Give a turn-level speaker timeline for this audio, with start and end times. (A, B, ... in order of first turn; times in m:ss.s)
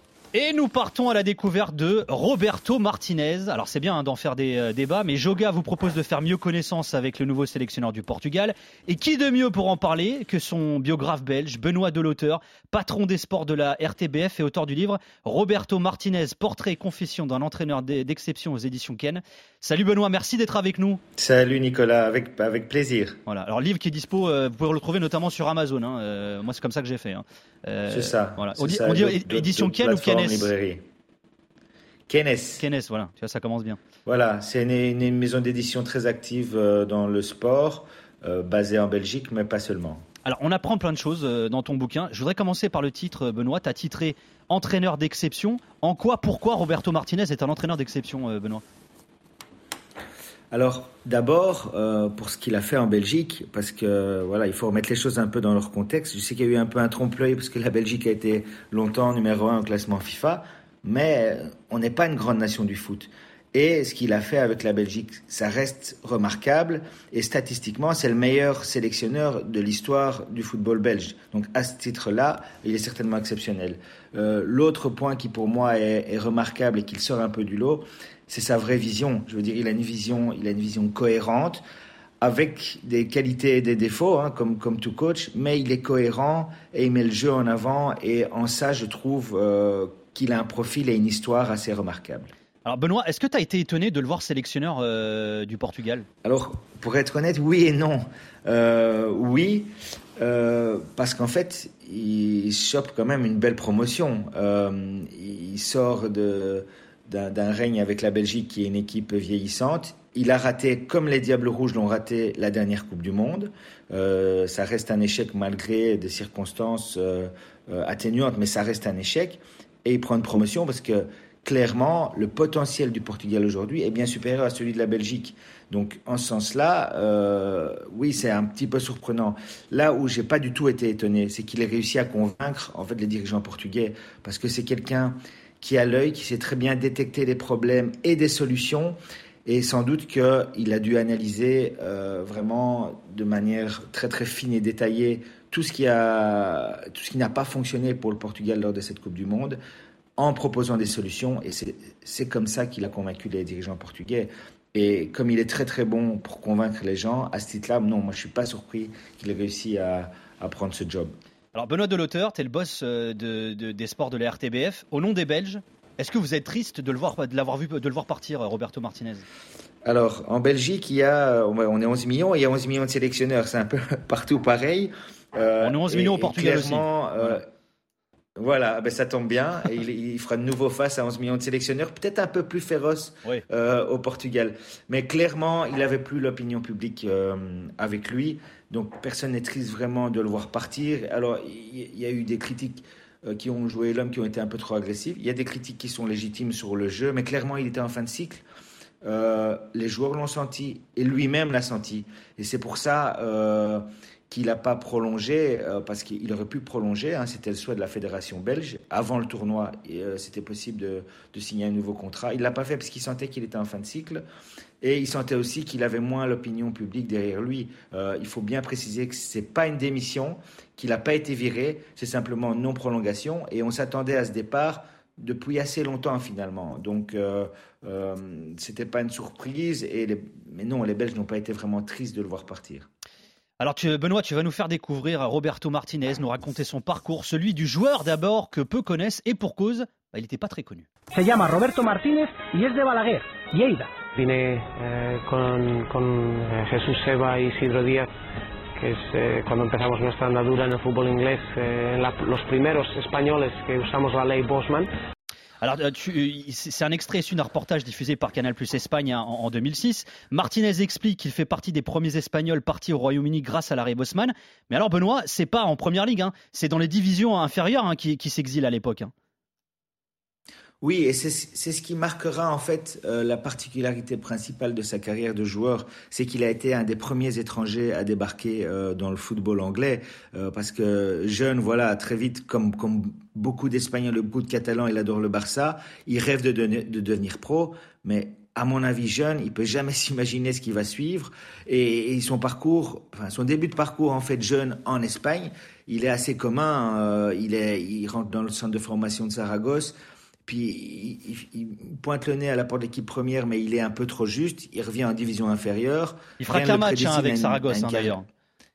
0:00.3-0:21.0 A
0:21.2-0:23.2 B
0:23.3-0:30.5 A
0:27.9-0:30.9 B
0:32.1-0:32.6 B
0:32.6-0:33.8 A
0:34.1-0:40.1 B
0:40.2-0:48.6 A
0:50.5-1:21.6 B
1:22.2-1:32.3 B
1:32.6-1:36.1 A
1:36.2-2:29.6 B
2:30.2-2:41.2 B
2:41.6-2:49.3 A
2:49.8-2:57.5 B
2:55.6-2:57.4 A
2:58.4-3:18.4 B
3:19.0-3:34.2 B
3:34.8-3:52.9 B
3:53.6-4:00.9 A
4:01.1-4:04.0 C
4:04.2-4:08.1 D
4:08.8-4:14.9 D
4:15.6-4:29.1 A
4:30.8-4:59.9 B
5:00.4-5:08.2 B
5:06.4-5:08.2 A